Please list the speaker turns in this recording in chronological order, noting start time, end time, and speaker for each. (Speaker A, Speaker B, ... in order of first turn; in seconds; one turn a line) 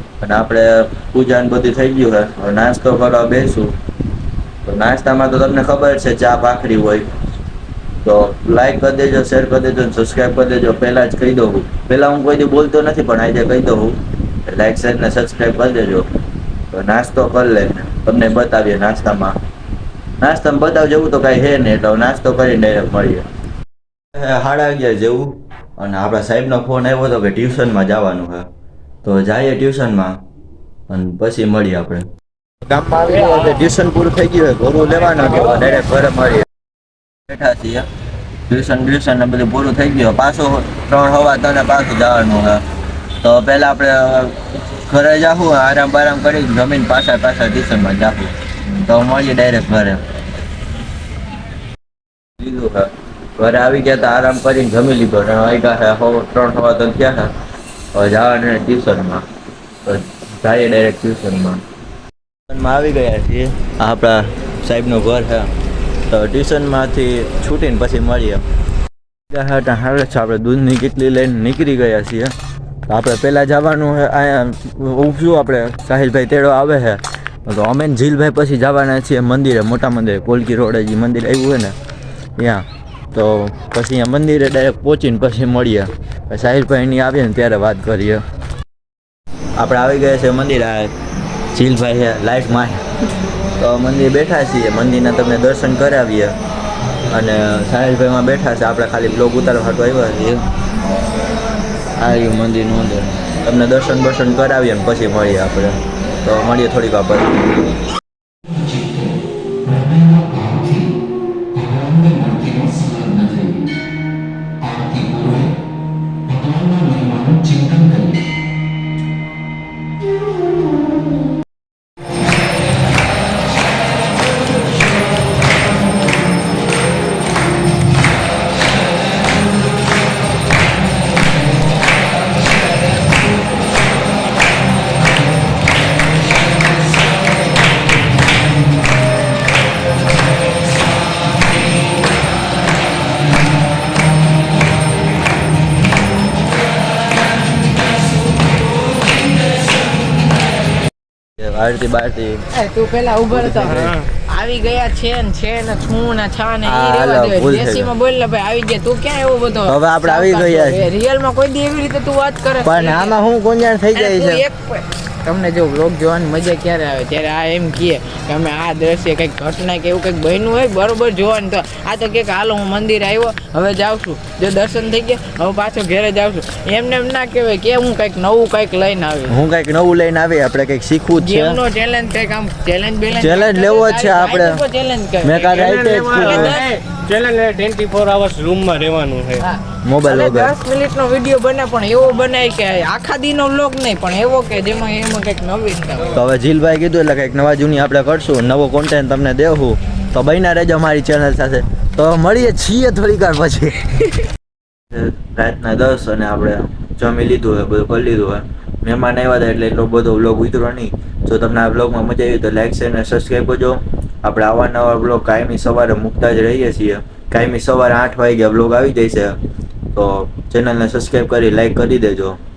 Speaker A: 0.2-3.8
Speaker A: 4.6-7.1
Speaker A: 8.0-16.1
Speaker A: 16.7-19.4
Speaker A: 20.2-23.2
Speaker A: 24.1-28.5
Speaker A: 29.0-30.2
Speaker A: 30.9-32.0
Speaker A: 32.6-36.5
Speaker A: 37.3-37.9
Speaker A: 38.5-42.6
Speaker A: 43.2-50.0
Speaker A: 52.4-57.3
Speaker A: 57.9-59.2
Speaker A: 59.8-61.6
Speaker A: 62.5-65.5
Speaker A: 66.1-68.4
Speaker A: 69.3-72.3
Speaker A: 72.9-81.7
Speaker A: 82.4-88.2
Speaker A: 89.6-90.9
Speaker A: 91.5-92.8
Speaker A: 93.6-96.4
Speaker A: 97.1-100.4
Speaker A: 102.0-107.8
Speaker A: 108.5-109.0
Speaker A: 109.7-110.8
Speaker A: 111.6-113.7
Speaker A: 114.7-115.5
Speaker A: 116.4-118.2
Speaker A: 151.4-152.4
Speaker B: 152.5-163.1
Speaker A: 153.3-154.0
Speaker C: 153.7-154.0
Speaker A: 156.6-157.9
Speaker A: 159.7-160.9
Speaker A: 162.6-164.4
Speaker B: 163.9-179.4
Speaker A: 179.3-181.6
Speaker B: 181.2-186.7
Speaker A: 183.1-184.6
Speaker A: 185.2-186.6
Speaker C: 185.5-189.4
Speaker B: 189.4-196.2
Speaker A: 189.8-190.5
Speaker A: 196.1-204.0
Speaker A: 204.9-219.4
Speaker A: 219.9-222.4